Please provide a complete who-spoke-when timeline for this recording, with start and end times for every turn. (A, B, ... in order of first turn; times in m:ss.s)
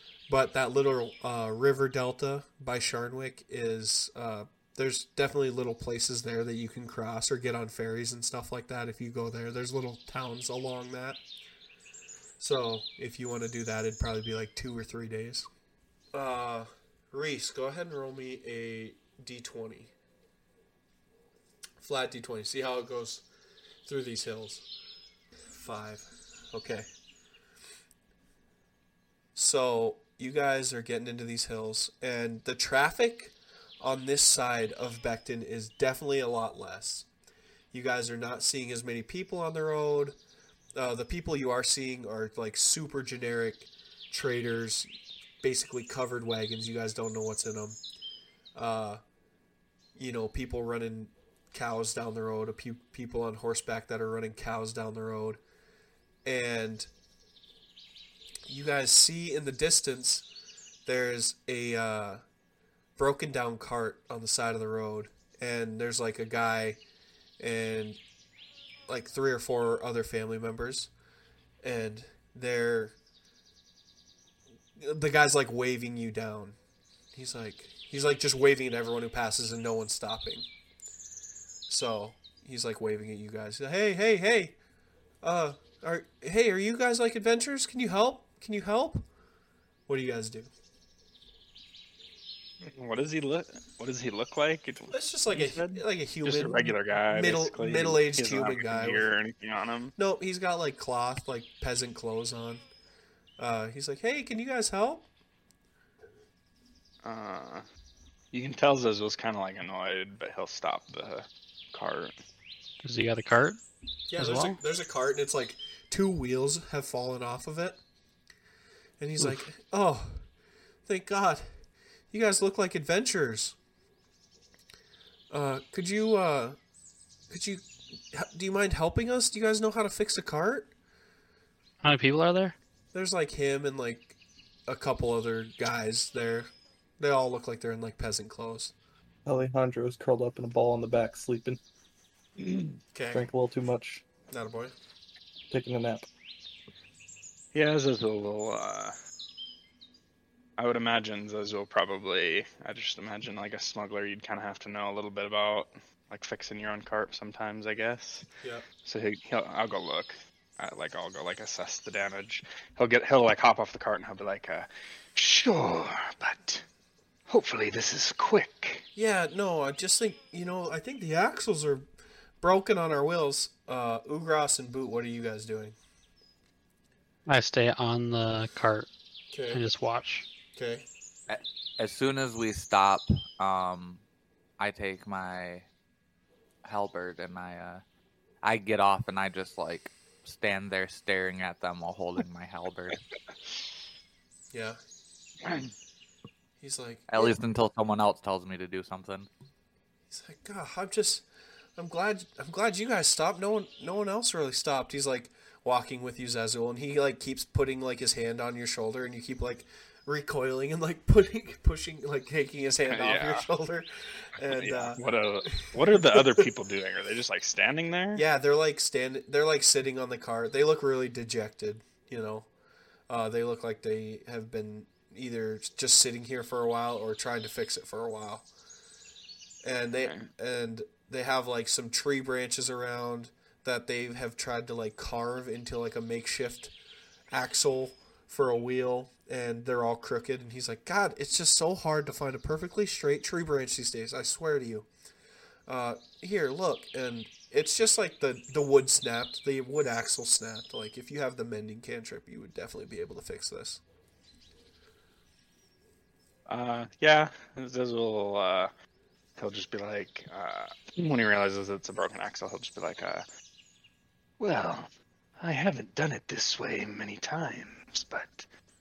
0:00.3-0:11.2 A
0:12.4-0:15.5 A
0:16.1-0:19.9 A
0:21.8-0:23.2 A
0:23.9-0:24.6 A
0:25.5-0:26.9 A
0:29.4-0:37.1 A
0:37.7-0:40.2 A
0:40.8-0:44.9 A
0:45.4-0:47.8 A
0:48.6-0:49.0 A
0:50.0-0:55.4 A
0:56.2-0:56.9 A
0:58.5-1:00.2 A
1:00.8-1:02.2 A
1:03.0-1:06.8 A
1:07.4-1:08.0 A
1:08.9-1:10.9 A
1:11.6-1:13.0 A
1:14.8-1:16.6 A
1:17.1-1:20.5 A
1:21.7-1:24.6 A
1:25.2-1:29.0 A
1:29.9-1:30.5 A
1:32.6-1:39.9 B
1:34.9-1:39.1 A
1:40.0-1:42.6 A
1:43.4-1:45.1 A
1:47.0-1:47.6 B
1:48.3-1:52.2 B
1:52.8-1:53.6 C
1:54.1-1:57.8 A
1:54.2-1:54.6 C
1:59.0-2:00.3 A
2:00.9-2:03.6 A
2:05.3-2:06.6 A
2:07.3-2:10.7 A
2:11.8-2:12.6 C
2:12.9-2:14.2 A
2:14.7-2:18.7 A
2:19.3-2:21.6 D
2:22.9-2:23.3 A
2:23.2-2:24.0 D
2:24.3-2:24.7 A
2:25.5-2:26.0 D
2:27.5-2:29.0 B
2:30.6-2:38.2 B
2:38.8-2:46.6 B
2:47.3-2:48.9 B
2:49.0-2:51.8 A
2:52.4-2:55.8 A
2:57.3-2:58.9 C
2:59.3-2:59.6 A
2:59.5-3:00.3 C
3:00.5-3:00.8 A
3:01.3-3:04.0 E
3:04.6-3:05.7 E
3:06.6-3:07.8 E
3:08.4-3:13.0 E
3:14.5-3:14.8 A
3:15.4-3:15.7 B
3:16.6-3:17.3 A
3:17.1-3:19.3 E
3:20.1-3:21.2 A
3:21.8-3:36.4 A
3:32.9-3:33.5 B
3:34.4-3:38.2 B
3:38.2-3:42.5 A
3:43.1-3:48.5 A
3:49.6-3:56.7 A
3:57.3-4:04.9 A
4:05.7-4:13.8 A
4:16.5-4:18.7 B
4:19.4-4:23.2 B
4:24.4-4:24.9 B
4:25.4-4:28.5 B